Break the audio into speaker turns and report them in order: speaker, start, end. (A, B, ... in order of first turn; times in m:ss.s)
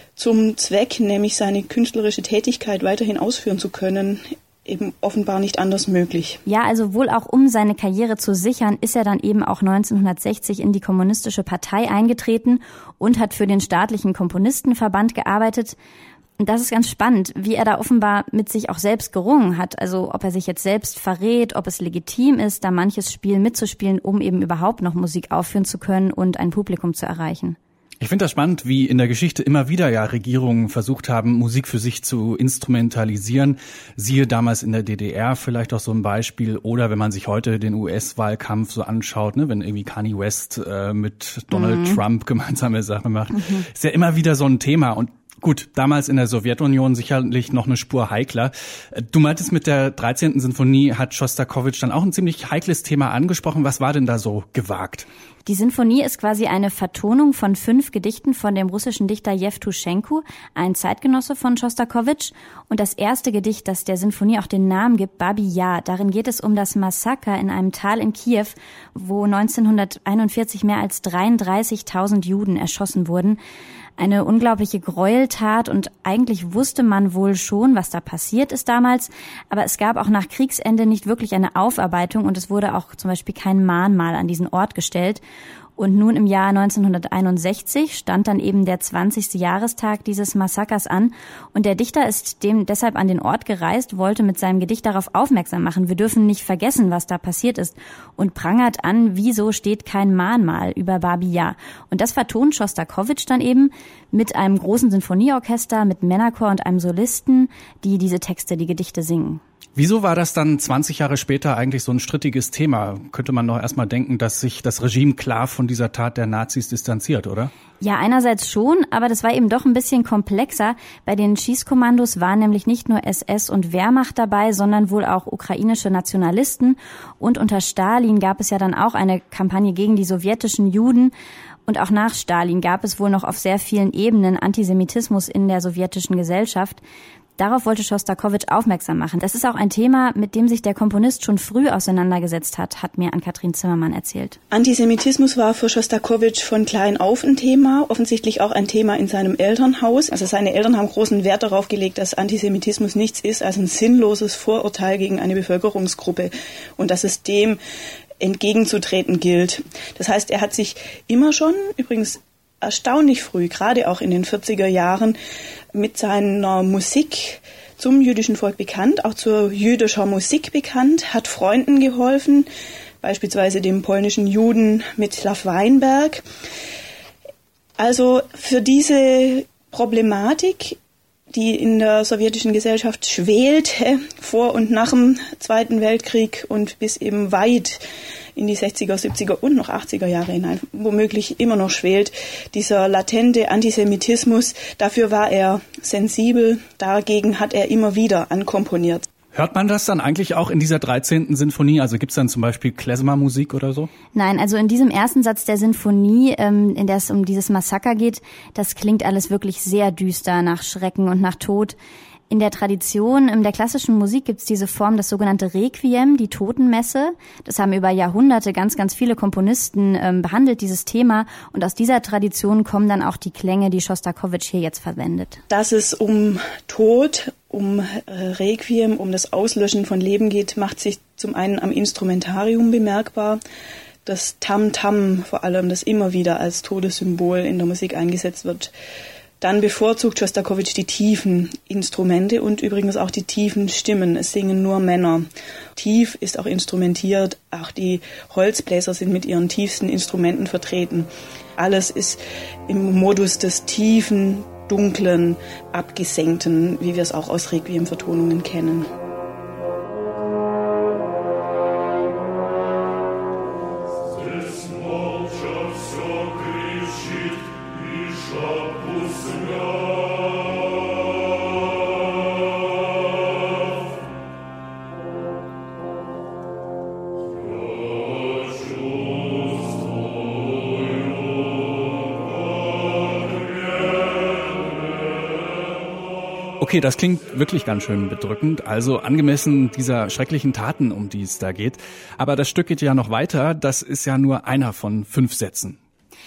0:00.2-0:06.4 A
0:06.4-0:15.8 B
0:16.4-0:27.6 B
0:28.0-0:55.1 C
0:41.5-0:42.0 B
0:55.4-1:13.4 B
1:14.0-1:25.2 B
1:25.8-1:49.4 B
1:49.8-1:57.5 C
1:57.8-2:11.1 B
2:11.6-2:16.8 B
2:17.4-2:24.4 B
2:24.5-2:37.6 A
2:38.2-2:45.2 A
2:45.7-2:52.5 A
2:53.0-2:56.2 A
2:57.8-3:00.8 A
3:01.3-3:07.8 A
3:08.4-3:19.0 A
3:19.3-3:23.9 C
3:24.1-3:31.8 B
3:32.3-3:45.4 B
3:45.5-3:53.4 A
3:54.0-3:58.7 A
3:59.4-4:18.9 A
4:46.6-4:55.8 C